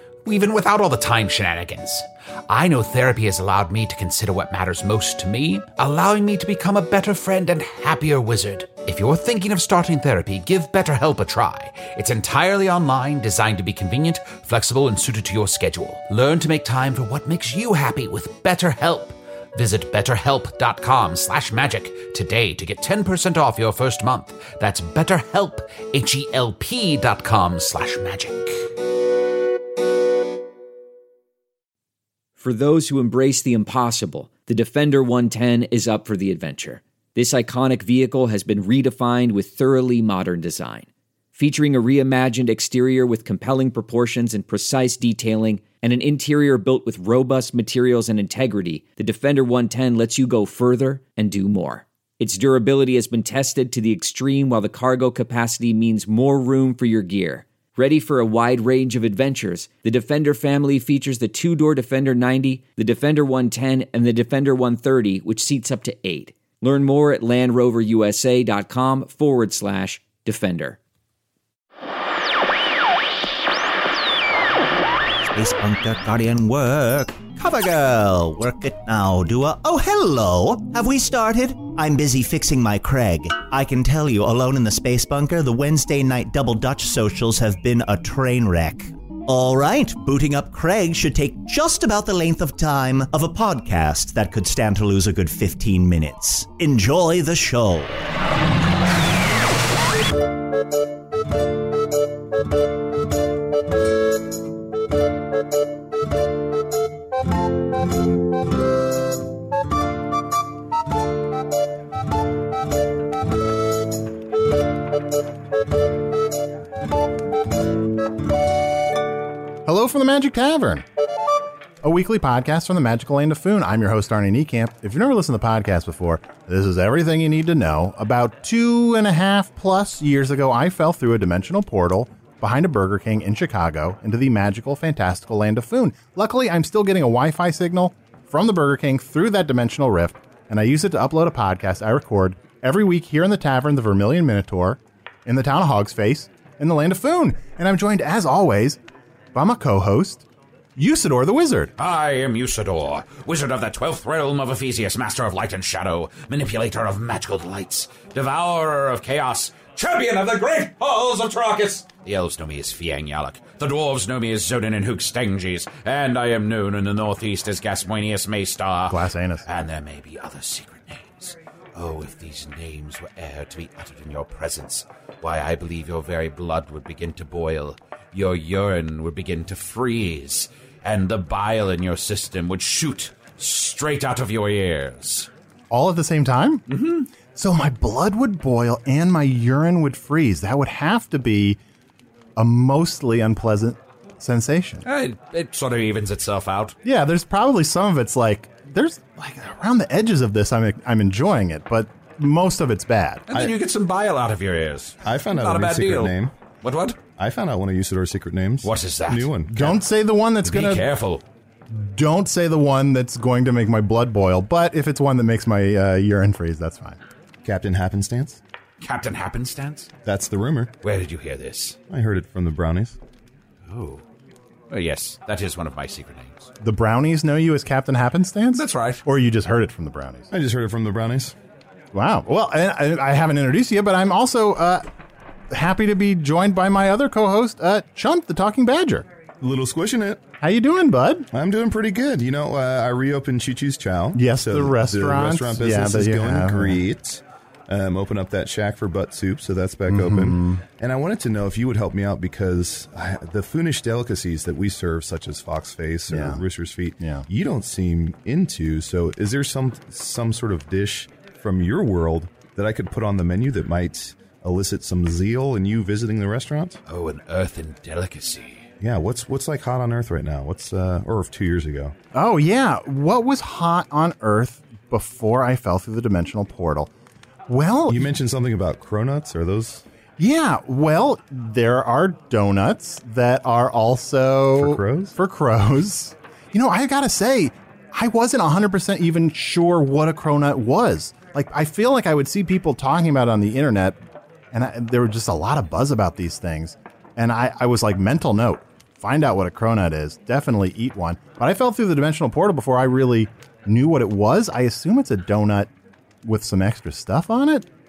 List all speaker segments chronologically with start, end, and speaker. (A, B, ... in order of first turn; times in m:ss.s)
0:00.2-0:28.7 A
0:32.4-1:10.8 B
1:15.3-1:38.1 C
1:59.6-2:00.8 D
2:01.8-2:28.8 D
2:29.3-2:30.2 D
2:30.8-2:31.7 D
2:31.8-3:05.3 A
2:48.9-2:49.5 D
3:05.7-3:06.6 D
3:06.7-3:07.1 A
3:07.4-3:11.6 D
3:12.4-3:14.8 D
3:14.8-3:16.8 A
3:16.8-3:23.3 D
3:23.3-3:27.0 A
3:25.0-3:26.3 E
3:27.2-3:29.8 E
3:28.6-3:29.3 A
3:29.5-3:30.9 D
3:30.4-3:31.2 A
3:31.7-3:37.0 D
3:37.4-3:38.4 E
3:38.8-3:39.9 A
3:40.0-3:40.7 E
3:40.8-3:41.8 A
3:41.9-3:43.0 E
3:43.7-3:44.0 A
3:44.7-3:46.5 A
3:46.6-3:50.3 D
3:48.5-3:49.0 A
3:50.3-3:51.3 E
3:51.9-3:54.8 D
3:55.5-3:59.1 D
3:59.4-4:00.2 E
4:00.4-4:01.3 D
4:01.3-4:26.8 E
4:04.1-4:06.8 D
4:09.9-4:10.6 D
4:16.1-4:16.4 D
4:17.0-4:17.3 D
4:26.9-4:28.6 A
4:28.8-4:31.9 E
4:32.1-4:36.9 D
4:37.5-4:38.1 D
4:37.9-4:39.8 E
4:40.2-4:54.0 D
4:44.6-4:45.1 E
4:54.5-5:05.7 D
5:06.2-5:07.7 D